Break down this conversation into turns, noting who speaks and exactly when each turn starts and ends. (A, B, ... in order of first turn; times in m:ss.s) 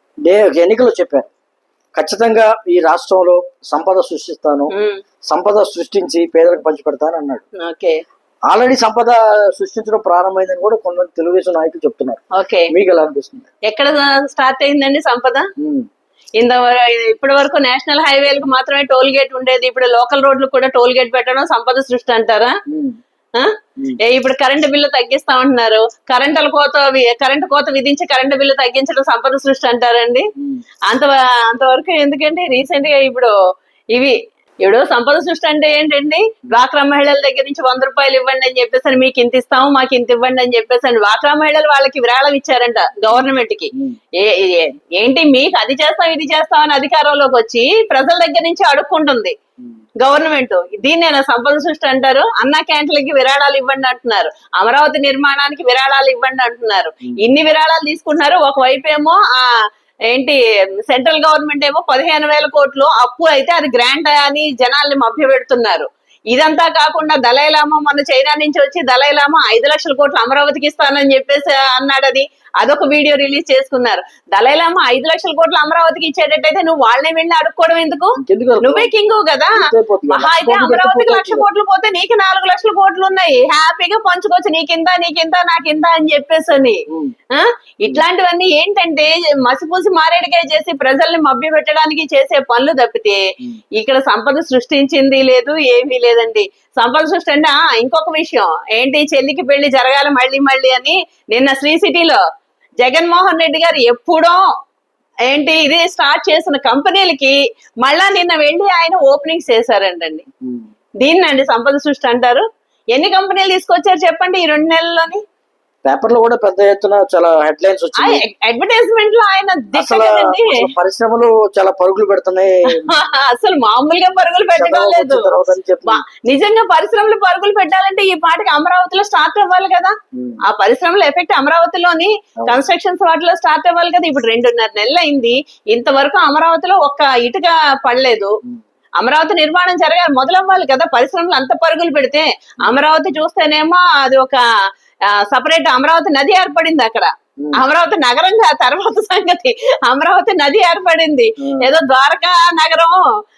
0:00.2-0:01.3 A
0:02.0-0:04.7 A
0:04.7-0:05.0 B
0:05.3-0:07.4 A
0:07.6-0:08.0 B
0:08.5-0:13.5 A
0:12.3-0:12.7 B
0:13.7-0:15.5 B
0:15.6-0:15.9 A
0:16.4-0:22.6 B
0:22.7-0:23.0 A
0:23.4-0:30.3 B
0:30.9-0:33.3 B
0:33.9-0:49.4 B
0:43.1-0:44.0 A
0:50.0-0:59.5 B
1:00.1-1:42.2 B
1:18.2-1:18.9 A
1:19.6-1:21.5 A
1:42.8-1:44.4 B
1:45.3-1:50.3 B
1:51.0-1:55.2 B
1:55.8-1:58.2 A
1:58.0-2:00.6 B
1:59.7-2:02.9 A
2:02.7-2:05.3 B
2:04.6-2:06.0 A
2:05.9-2:18.4 B
2:10.2-2:10.4 A
2:19.0-2:24.4 B
2:25.1-2:33.0 B
2:31.4-2:31.7 A